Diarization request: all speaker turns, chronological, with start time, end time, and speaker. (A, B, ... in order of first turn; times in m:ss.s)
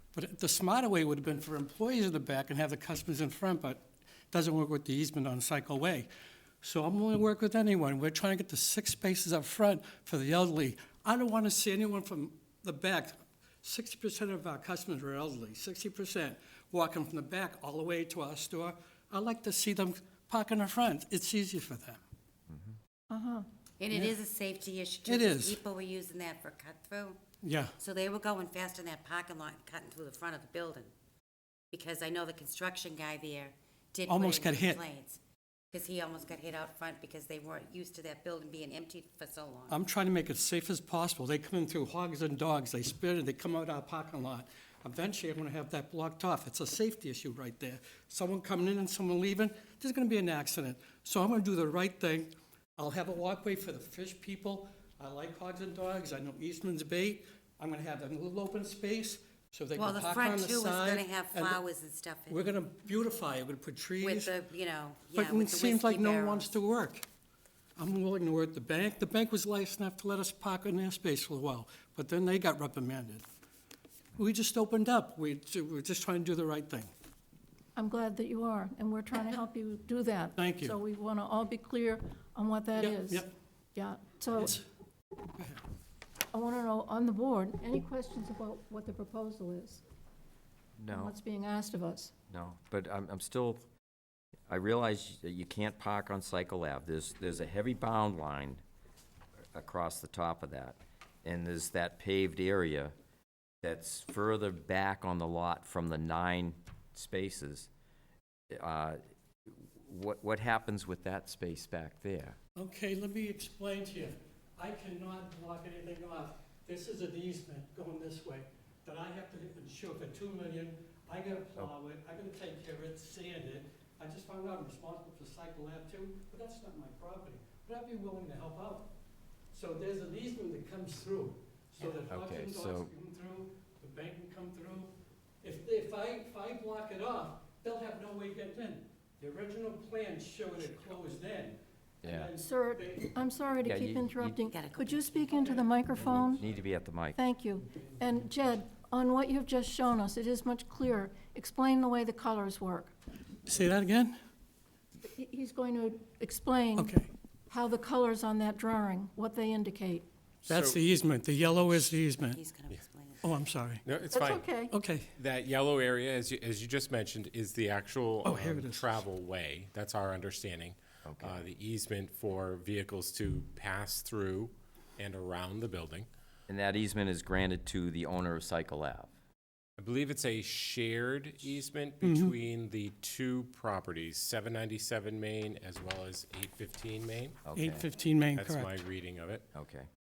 0:00.1-0:06.1 A
0:06.6-0:22.0 A
0:23.1-0:23.5 B
0:23.8-0:27.2 C
0:23.9-0:24.2 A
0:25.1-0:25.6 A
0:27.4-0:27.8 A
0:27.8-0:30.9 C
0:31.7-0:35.2 C
0:34.1-0:34.8 A
0:35.7-0:39.8 C
0:39.7-1:01.6 A
0:59.8-1:02.4 C
1:02.3-1:04.3 A
1:04.0-1:06.5 C
1:05.1-1:07.1 A
1:07.8-1:13.2 A
1:14.2-1:16.9 A
1:17.8-1:24.6 B
1:20.4-1:20.8 A
1:22.8-1:23.3 A
1:24.4-1:24.6 A
1:26.3-1:29.8 B
1:30.8-1:31.2 D
1:30.9-1:32.1 B
1:32.3-1:33.6 D
1:34.5-1:38.6 D
1:39.5-1:42.9 D
1:43.6-1:47.7 D
1:48.5-1:52.4 D
1:52.6-2:08.9 A
2:09.5-2:23.2 A
2:12.1-2:12.9 D
2:22.0-2:22.3 D
2:22.4-2:26.4 B
2:23.6-2:24.4 D
2:24.5-2:25.0 C
2:25.2-2:26.6 A
2:26.3-2:27.2 D
2:27.2-2:32.9 B
2:33.4-2:34.2 A
2:35.0-2:36.9 B
2:36.8-2:37.1 A
2:37.5-2:40.1 B
2:40.5-2:42.4 A
2:40.5-2:40.8 E
2:42.3-2:43.2 C
2:43.2-2:43.8 A
2:43.8-2:44.6 E
2:44.1-2:44.7 B
2:44.7-2:45.1 A
2:45.2-2:56.1 E
2:48.2-2:48.9 A
2:51.0-2:51.5 D
2:56.5-2:59.1 D
2:59.8-3:07.4 E
3:02.0-3:02.4 A
3:07.4-3:07.9 D
3:07.6-3:08.7 A
3:08.4-3:09.5 E
3:09.6-3:09.9 D